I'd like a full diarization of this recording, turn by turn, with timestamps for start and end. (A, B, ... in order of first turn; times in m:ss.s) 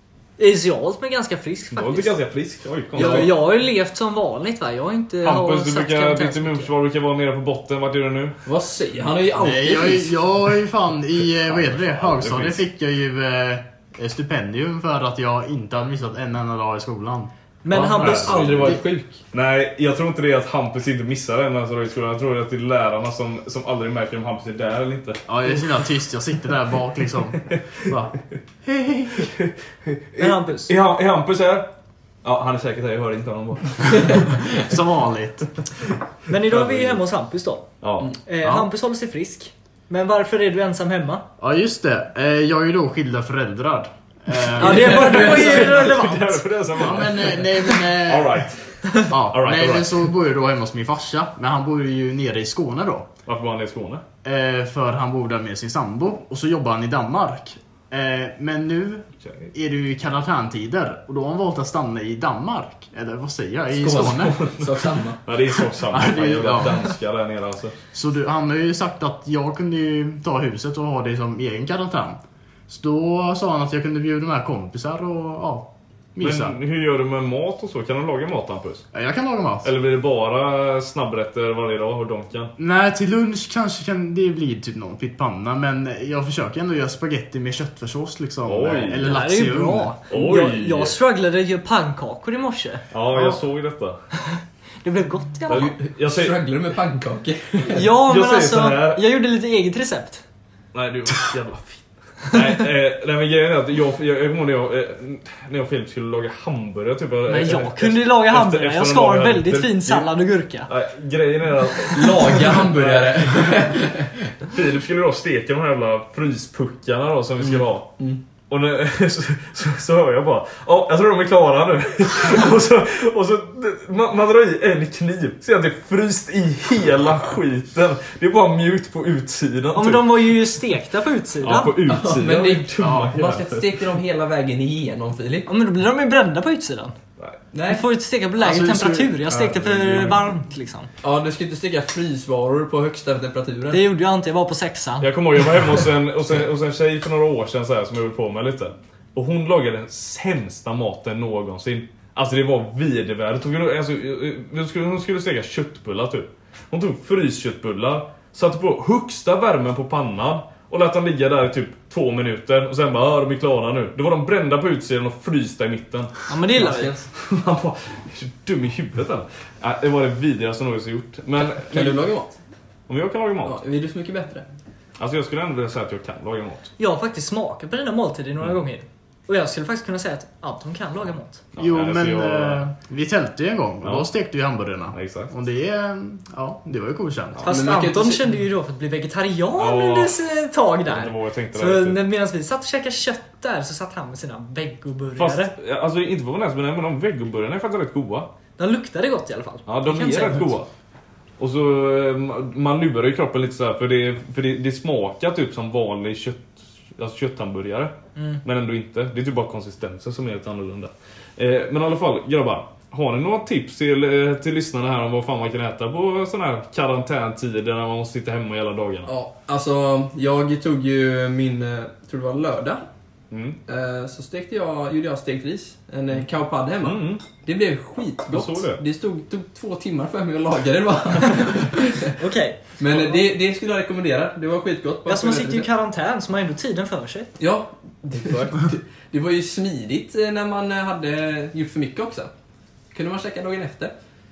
0:00.4-0:02.2 A
0:01.7-0:03.3 B
0:02.9-0:06.7 A
0:03.0-0:03.3 C
0:05.2-0:08.4 B
0:08.4-0:10.3 C
0:09.4-0:18.8 D
0:11.5-0:12.6 B
0:17.6-0:18.4 A
0:17.7-0:19.2 C
0:17.8-0:18.8 B
0:19.3-0:25.2 B
0:25.3-0:29.3 D
0:29.2-0:31.7 B
0:30.2-0:30.7 A
0:32.2-0:34.5 B
0:34.1-0:35.5 D
0:36.3-0:37.7 A
0:36.4-0:37.0 B
0:37.8-0:38.1 B
0:38.2-0:41.2 A
0:38.4-0:38.7 D
0:41.4-0:45.6 D
0:44.5-0:46.4 A
0:44.6-0:45.6 C
0:44.8-0:50.0 B
0:46.8-0:48.4 D
0:49.1-0:53.1 D
0:53.2-0:54.0 B
0:54.2-1:04.4 D
0:59.2-0:59.5 B
1:03.7-1:05.2 C
1:04.1-1:07.8 B
1:05.8-1:06.9 D
1:07.9-1:16.6 D
1:16.2-1:18.8 B
1:18.9-1:19.7 D
1:19.6-1:22.5 B
1:22.6-1:29.9 D
1:28.4-1:29.2 B
1:29.0-1:33.4 A
1:30.1-1:30.9 B
1:32.9-1:34.0 B
1:34.3-1:35.7 A
1:35.5-1:36.4 B
1:35.5-1:37.9 C
1:37.7-1:40.2 A
1:37.8-1:39.0 B
1:40.7-1:50.1 B
1:47.3-1:50.7 A
1:50.7-1:53.8 B
1:51.8-1:54.2 C
1:54.4-1:57.9 B
1:57.5-1:58.2 C
1:58.5-2:10.4 B
2:09.7-2:11.8 A
2:11.4-2:13.8 B
2:11.8-2:15.5 C
2:12.8-2:13.1 D
2:15.4-2:16.9 A
2:17.5-2:17.8 C
2:17.6-2:20.9 A
2:18.4-2:19.2 D
2:19.3-2:20.2 B
2:21.0-2:23.8 C
2:23.7-2:25.1 A
2:25.0-2:46.2 B
2:46.3-2:46.9 A
2:46.5-2:47.1 C
2:47.2-2:52.0 B
2:51.4-2:52.4 C
2:52.9-2:53.6 B
2:53.4-2:54.4 C
2:55.0-2:56.7 B
2:56.8-3:01.4 A
3:01.5-3:02.6 B
3:01.6-3:07.4 D
3:04.9-3:05.3 B
3:07.4-3:08.4 C
3:07.4-3:15.5 A
3:09.6-3:10.3 B
3:10.8-3:12.0 B
3:15.2-3:18.3 B
3:18.6-3:20.5 A
3:19.7-3:20.7 B
3:21.4-3:39.1 B
3:28.1-3:28.4 A
3:39.0-3:42.8 C
3:43.3-3:43.6 B
3:43.7-3:52.2 C
3:46.8-3:47.2 B
3:48.3-3:48.8 B
3:52.0-3:53.1 A
3:52.8-3:55.7 C
3:55.0-3:57.3 A
3:57.4-4:02.3 C
4:02.9-4:03.9 C